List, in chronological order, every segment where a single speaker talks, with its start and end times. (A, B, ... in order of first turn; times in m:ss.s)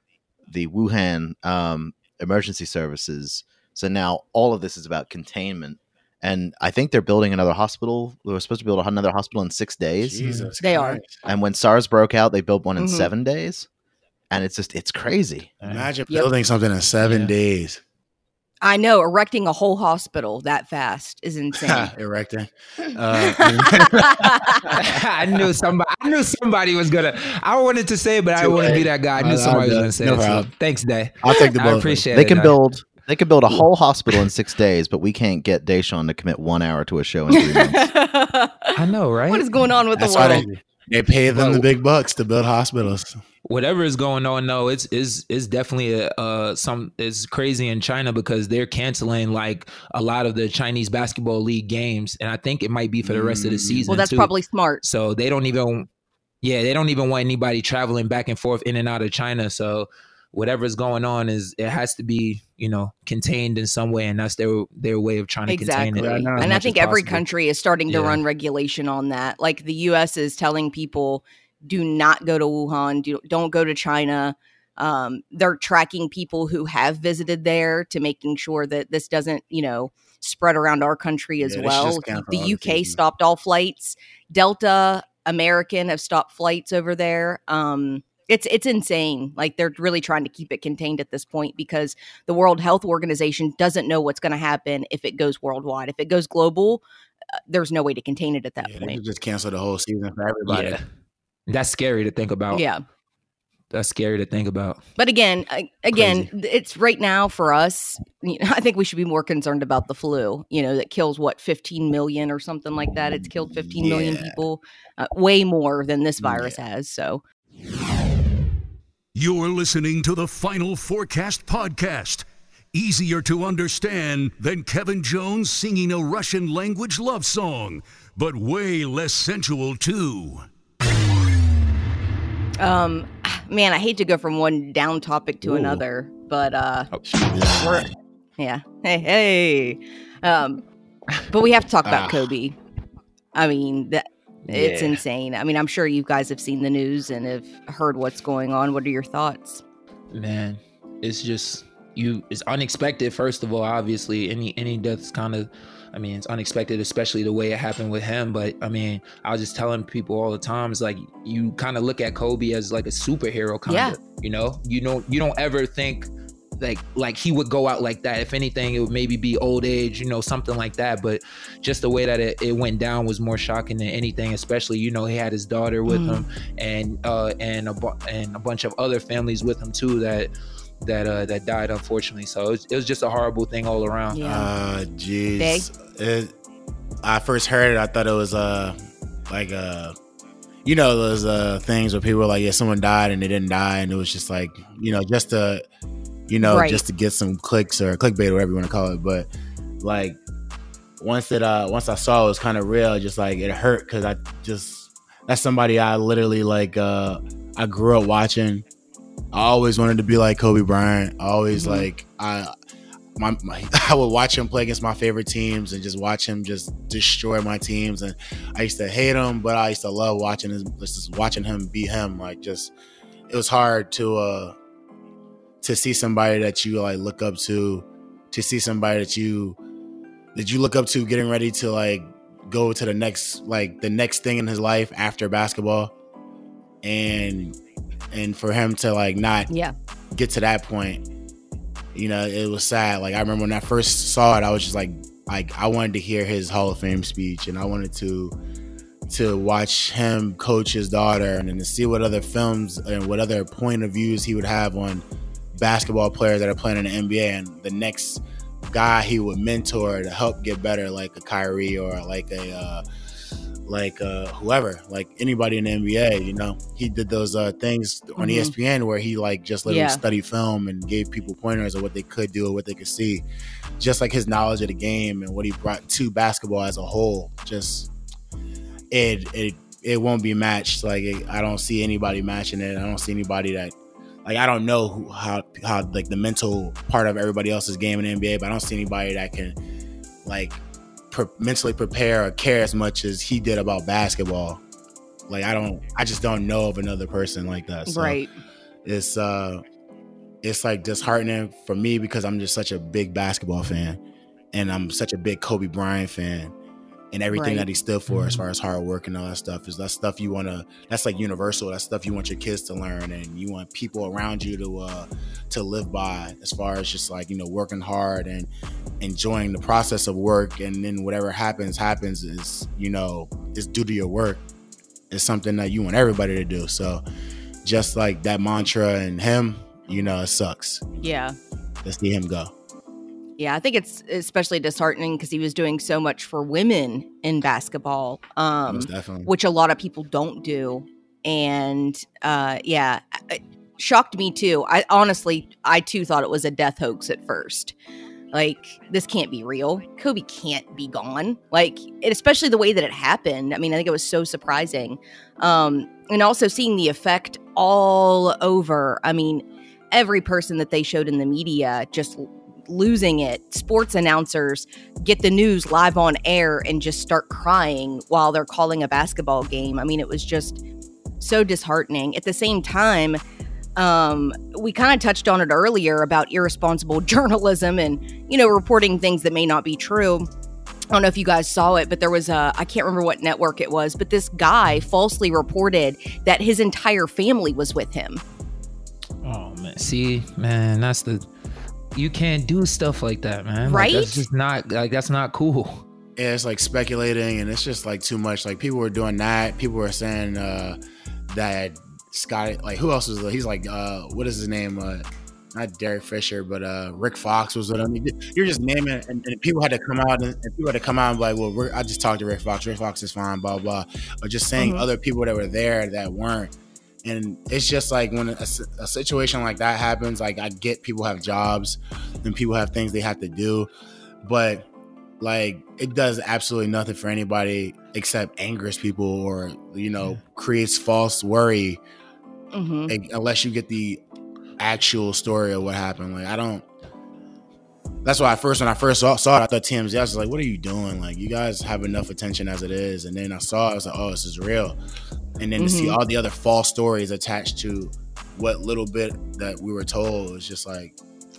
0:00.5-0:10.3 A
0:10.0-0:11.1 B
0:10.2-0:10.5 C
0:10.6-0:11.0 D
0:11.2-0:13.7 A
0:12.8-0:13.1 D
0:14.3-0:15.6 A
0:15.6-0:17.8 B
0:17.0-0:17.3 C
0:18.6-0:21.9 D
0:21.6-0:24.8 B
0:23.1-0:24.8 D
0:24.7-0:32.6 C
0:28.4-0:30.5 B
0:28.6-0:28.8 D
0:31.2-0:32.0 B
0:32.1-0:37.9 A
0:37.3-0:38.8 D
0:38.8-0:39.5 C
0:39.3-0:40.5 D
0:40.0-0:43.2 B
0:40.2-0:40.6 C
0:41.3-0:41.7 C
0:43.4-0:55.9 C
0:53.0-0:53.9 B
0:53.9-0:54.8 D
0:56.4-1:06.7 C
1:05.5-1:36.8 D
1:06.0-1:07.2 B
1:07.9-1:08.2 C
1:21.4-1:23.0 B
1:37.5-1:39.0 D
1:38.6-1:40.8 B
1:40.5-1:40.8 C
1:41.5-1:42.6 C
1:42.5-1:42.8 D
1:43.7-1:44.8 C
1:45.0-1:57.2 D
1:45.9-1:46.3 C
1:53.8-1:54.4 B
1:56.2-1:56.6 B
1:59.1-2:10.5 E
2:12.6-2:16.9 D
2:15.4-2:15.8 B
2:16.9-2:17.6 C
2:17.2-2:17.9 B
2:17.6-2:20.6 D
2:21.3-2:22.6 D
2:21.9-2:22.3 B
2:23.3-2:29.6 D
2:24.5-2:25.0 C
2:30.1-3:04.2 C
2:43.7-2:44.0 D
2:55.9-2:56.2 D
3:04.1-3:04.5 D
3:04.2-3:06.3 B
3:05.4-3:05.7 D
3:07.0-3:08.8 B
3:09.3-3:10.0 B
3:10.6-3:15.6 B
3:16.3-3:19.3 B
3:16.4-3:16.8 D
3:19.8-3:20.2 B
3:21.0-3:28.6 B
3:29.3-3:32.5 B
3:31.5-3:31.9 D
3:33.2-3:42.7 B
3:43.3-3:44.6 B
3:45.6-3:49.6 B
3:50.4-3:55.9 B
3:56.8-3:57.6 B
3:58.1-3:59.5 B
4:00.1-4:01.0 B
4:02.0-4:08.4 B
4:09.1-4:15.0 B
4:15.6-4:22.8 B
4:23.7-4:33.2 B
4:28.2-4:28.5 D
4:29.7-4:30.0 D
4:33.8-4:37.9 B
4:38.9-4:43.7 B
4:44.2-4:49.6 B
4:50.2-4:50.6 B
4:51.1-4:54.6 B
4:55.3-4:58.2 B
4:57.9-4:58.3 D
4:58.8-4:59.6 B
5:00.4-5:04.0 B
5:04.5-5:06.5 B
5:07.1-5:18.5 B
5:07.3-5:07.7 D
5:08.1-5:08.4 C
5:19.0-5:24.4 B
5:25.1-5:27.0 B
5:27.6-5:31.0 B
5:31.0-5:31.4 D
5:31.8-5:32.5 B
5:33.4-5:47.7 D
5:38.7-5:39.3 B
5:48.3-6:10.6 D
6:11.2-6:13.2 D
6:13.8-6:20.3 D
6:20.9-6:28.2 D
6:29.2-6:31.2 C
6:32.0-6:35.8 C
6:33.6-6:34.2 D
6:36.2-6:40.8 B
6:41.3-6:56.5 B
6:54.6-6:54.9 D
6:57.0-7:03.7 B
7:04.2-7:04.7 B
7:05.2-7:11.8 B
7:12.5-7:12.9 D
7:12.9-7:14.0 B
7:14.6-7:16.6 B
7:18.0-7:24.8 B
7:25.4-7:31.0 B
7:25.6-7:26.0 D